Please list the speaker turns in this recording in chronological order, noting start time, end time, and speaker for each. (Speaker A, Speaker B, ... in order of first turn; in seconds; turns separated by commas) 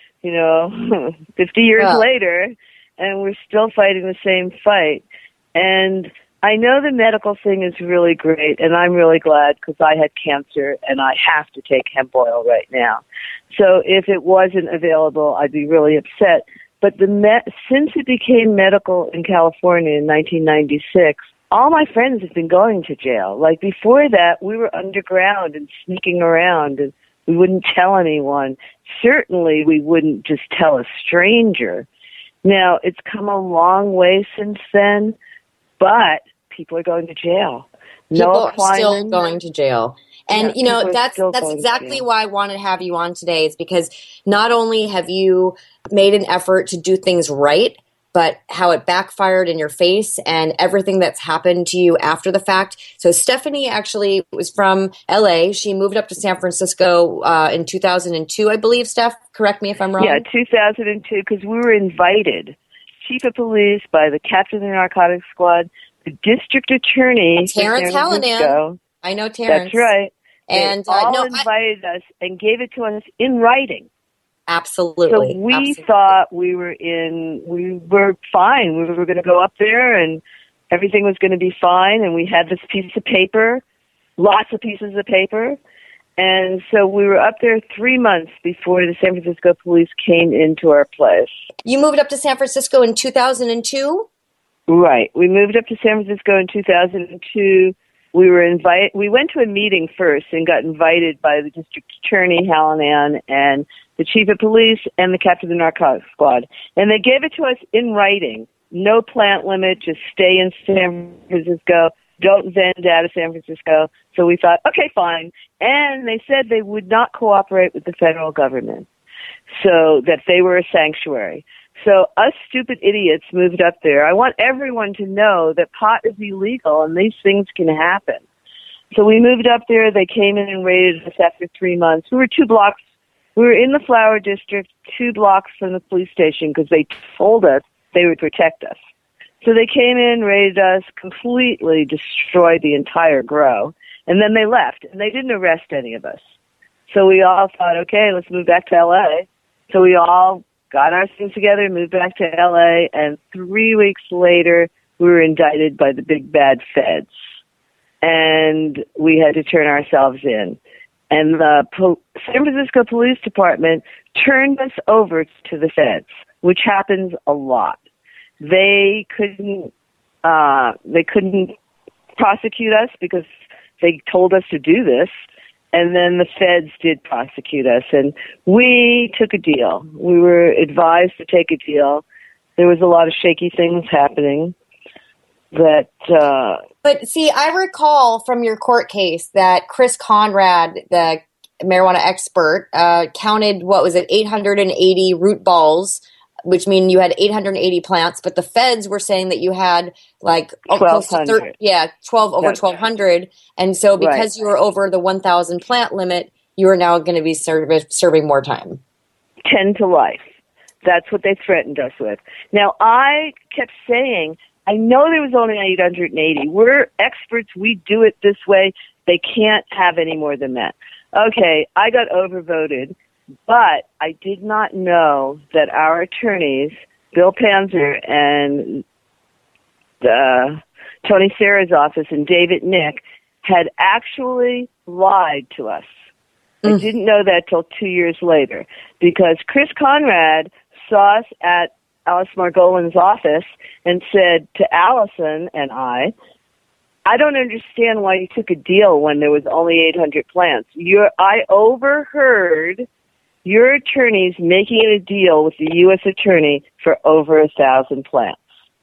Speaker A: 0.2-5.0, Speaker B: 1.8-2.0, Speaker A: 5.5-31.9, Speaker A: 32.4-35.2, Speaker A: 35.8-39.2, Speaker B: 38.1-60.2, Speaker A: 40.3-42.0, Speaker A: 60.0-68.8, Speaker B: 67.4-69.9, Speaker A: 69.5-73.9, Speaker B: 70.5-71.5, Speaker B: 74.5-75.9, Speaker A: 75.1-83.6, Speaker A: 84.2-85.6, Speaker A: 86.2-91.3, Speaker B: 91.7-94.1, Speaker A: 94.7-118.9, Speaker A: 119.5-128.2, Speaker A: 128.9-132.8, Speaker A: 133.4-138.8, Speaker A: 139.4-146.2, Speaker A: 146.9-157.1, Speaker A: 158.0-160.6, Speaker A: 161.1-167.8, Speaker A: 168.4-169.7, Speaker A: 170.2-171.5, Speaker A: 172.2-173.3, Speaker A: 173.8-175.1, Speaker A: 175.7-182.0, Speaker A: 182.6-184.6, Speaker A: 185.5-186.6, Speaker B: 186.8-208.8, Speaker A: 200.7-201.5, Speaker A: 204.0-204.3, Speaker A: 209.4-210.2, Speaker A: 210.8-222.9, Speaker A: 223.5-228.8, Speaker A: 230.0-235.9, Speaker A: 236.6-246.1, Speaker A: 247.1-252.9, Speaker A: 253.4-258.4